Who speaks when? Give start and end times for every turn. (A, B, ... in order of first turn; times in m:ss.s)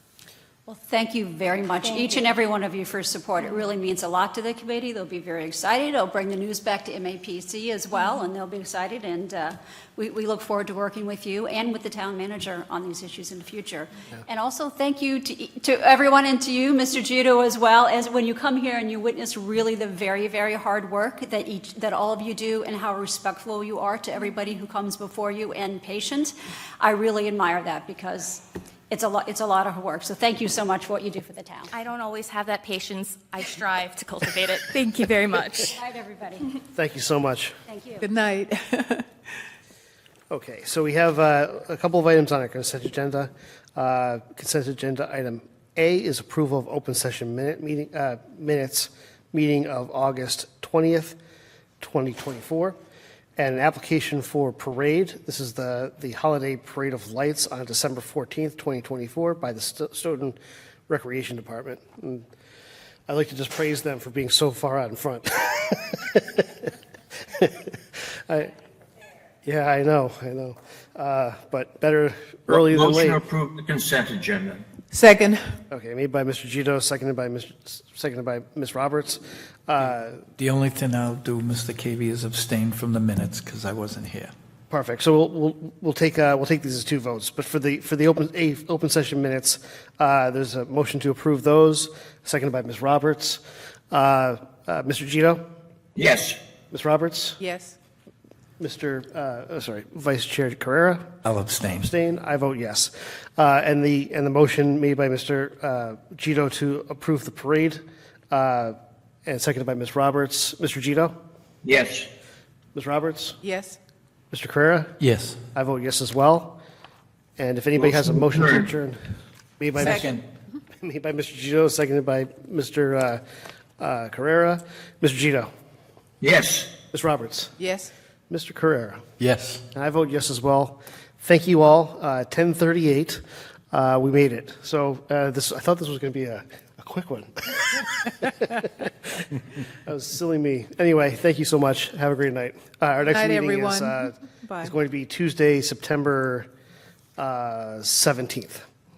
0:00.7-0:31.7 A
0:31.7-0:35.8 B
0:35.7-0:36.4 A
0:36.7-0:37.6 C
0:37.7-0:38.0 A
0:38.0-0:39.1 D
0:40.3-0:51.2 C
0:51.8-0:52.8 C
0:53.4-1:00.4 C
1:00.9-1:02.3 C
1:03.1-1:06.4 C
1:07.4-1:07.7 C
1:08.3-1:08.5 C
1:09.4-1:13.2 C
1:12.5-1:14.6 E
1:14.9-1:15.6 D
1:15.7-1:20.2 C
1:20.4-1:24.3 F
1:24.7-1:35.4 C
1:36.0-1:36.4 E
1:36.7-1:37.4 C
1:37.4-1:37.8 D
1:38.6-1:41.1 C
1:41.2-1:41.9 F
1:41.8-1:51.1 C
1:51.6-1:52.1 E
1:52.7-1:53.4 C
1:53.4-1:53.8 D
1:54.3-1:55.0 C
1:55.0-1:55.4 F
1:55.5-1:56.6 C
1:57.4-2:00.2 C
1:57.8-1:58.6 E
1:59.8-2:00.2 F
2:00.8-2:03.2 C
2:03.8-2:05.5 C
2:06.2-2:06.7 E
2:06.9-2:07.5 C
2:07.6-2:07.9 D
2:08.3-2:09.1 C
2:09.2-2:09.6 F
2:09.7-2:19.2 C
2:19.8-2:26.5 C
2:23.1-2:24.7 D
2:27.2-2:28.6 C